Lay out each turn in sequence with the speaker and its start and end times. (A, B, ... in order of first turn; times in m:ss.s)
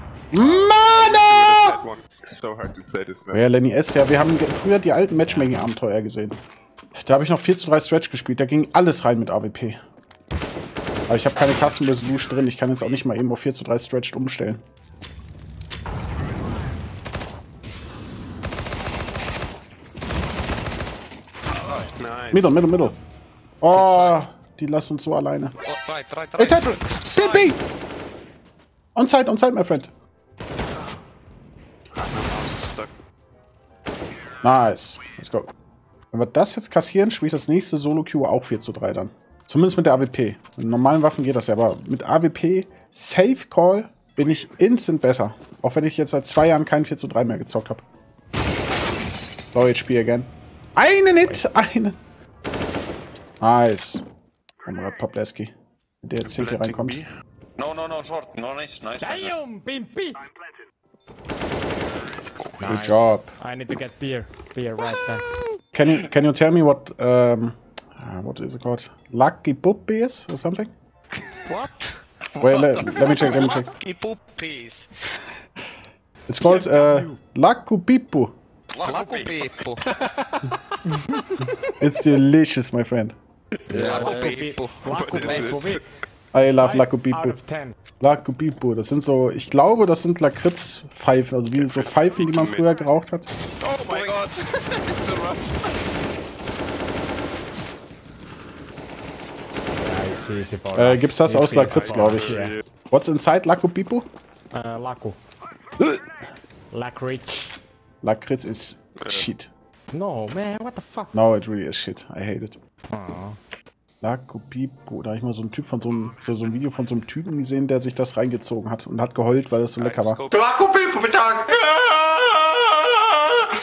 0:00.3-0:01.7 A
0:00.3-0:03.4 B
0:03.3-0:06.4 A
0:05.1-0:05.7 C
0:07.0-0:09.8 A
0:11.1-0:14.6 A
0:22.0-0:22.5 B
0:22.3-0:23.0 A
0:23.6-0:25.5 A
0:23.7-0:24.2 D
0:25.6-0:27.5 D
0:26.4-0:27.6 A
0:28.9-0:29.9 A
0:32.0-0:32.9 B
0:34.4-0:35.5 A
0:36.1-0:47.8 A
0:49.5-0:52.0 A
0:53.4-0:54.0 A
0:54.6-0:57.0 A
0:56.2-0:57.1 B
0:57.6-0:59.3 E
0:59.0-1:00.2 C
1:02.6-1:05.3 C
1:02.6-1:03.3 A
1:05.7-1:10.7 A
1:11.4-1:12.0 D
1:12.4-1:13.5 E
1:12.4-1:13.7 A
1:13.0-1:15.0 D
1:16.3-1:18.3 A
1:16.4-1:17.2 C
1:18.7-1:20.5 E
1:18.8-1:19.8 D
1:21.8-1:23.2 A
1:23.7-1:24.4 E
1:23.7-1:25.6 D
1:23.8-1:25.8 C
1:24.9-1:25.9 B
1:26.3-1:27.4 A
1:26.6-1:27.8 C
1:28.0-1:33.3 A
1:31.5-1:32.8 B
1:33.6-1:35.7 B
1:33.8-1:34.3 E
1:39.8-1:42.5 C
1:40.7-1:42.3 A
1:41.6-1:42.6 B
1:42.9-1:44.1 A
1:44.5-1:45.2 C
1:45.8-1:46.0 A
1:46.7-1:47.5 C
1:48.0-1:49.5 A
1:49.0-1:49.3 B
1:49.9-1:51.2 C
1:51.1-1:52.6 A
1:52.9-1:53.4 C
1:54.0-2:00.2 A
1:59.8-2:00.4 B
2:00.3-2:03.1 D